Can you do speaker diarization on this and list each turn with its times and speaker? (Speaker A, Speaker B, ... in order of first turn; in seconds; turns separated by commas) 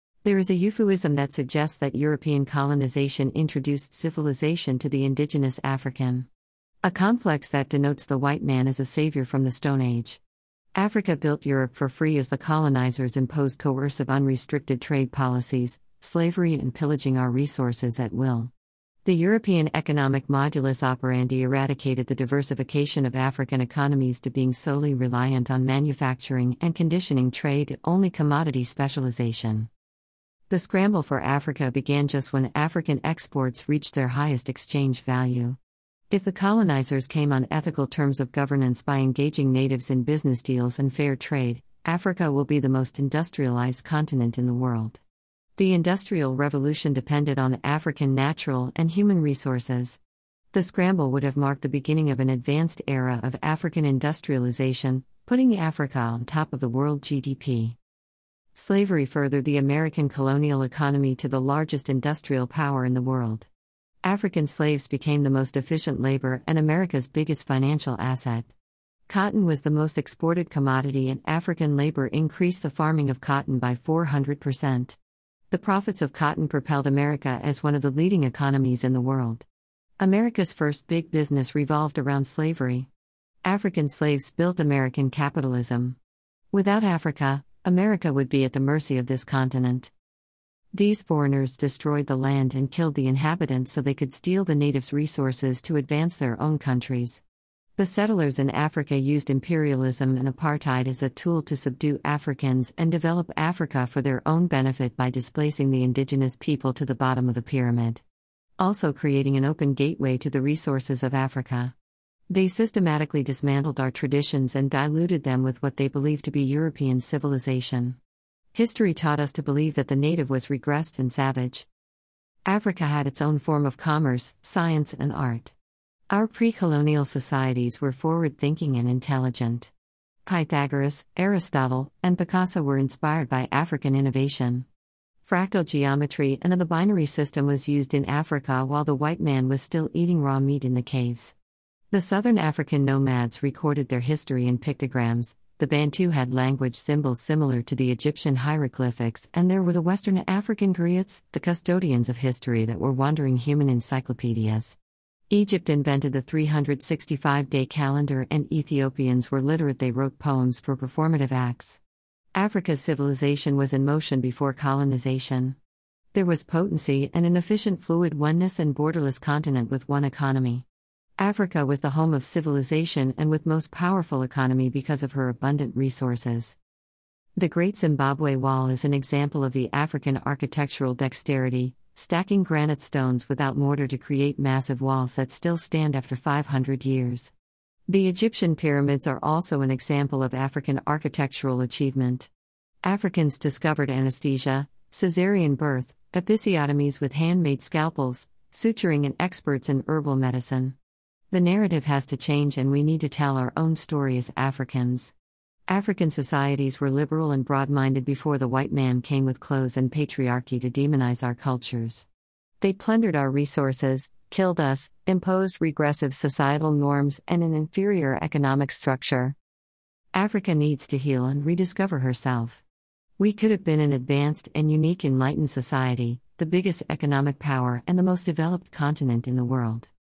Speaker A: 0.2-6.3, Speaker A: 6.8-10.2, Speaker A: 10.7-18.5, Speaker A: 19.0-29.7, Speaker A: 30.5-35.6, Speaker A: 36.1-45.0, Speaker A: 45.6-50.0, Speaker A: 50.5-57.8, Speaker A: 58.5-63.5, Speaker A: 64.0-68.5, Speaker A: 69.1-75.0, Speaker A: 75.5-79.5, Speaker A: 80.0-82.9, Speaker A: 83.5-86.0, Speaker A: 86.5-89.9, Speaker A: 90.7-97.2, Speaker A: 97.8-108.0, Speaker A: 108.6-111.8, Speaker A: 112.3-118.0, Speaker A: 118.5-121.7, Speaker A: 122.5-125.5, Speaker A: 126.1-129.7, Speaker A: 130.2-134.7, Speaker A: 135.2-141.3, Speaker A: 141.9-154.8, Speaker A: 155.3-161.8, Speaker A: 162.3-165.6, Speaker A: 166.1-170.7, Speaker A: 171.2-176.6, Speaker A: 177.4-187.3, Speaker A: 187.9-192.3, Speaker A: 192.8-200.8, Speaker A: 201.3-205.1, Speaker A: 205.7-212.1, Speaker A: 212.6-219.4, Speaker A: 220.1-222.6, Speaker A: 223.2-229.9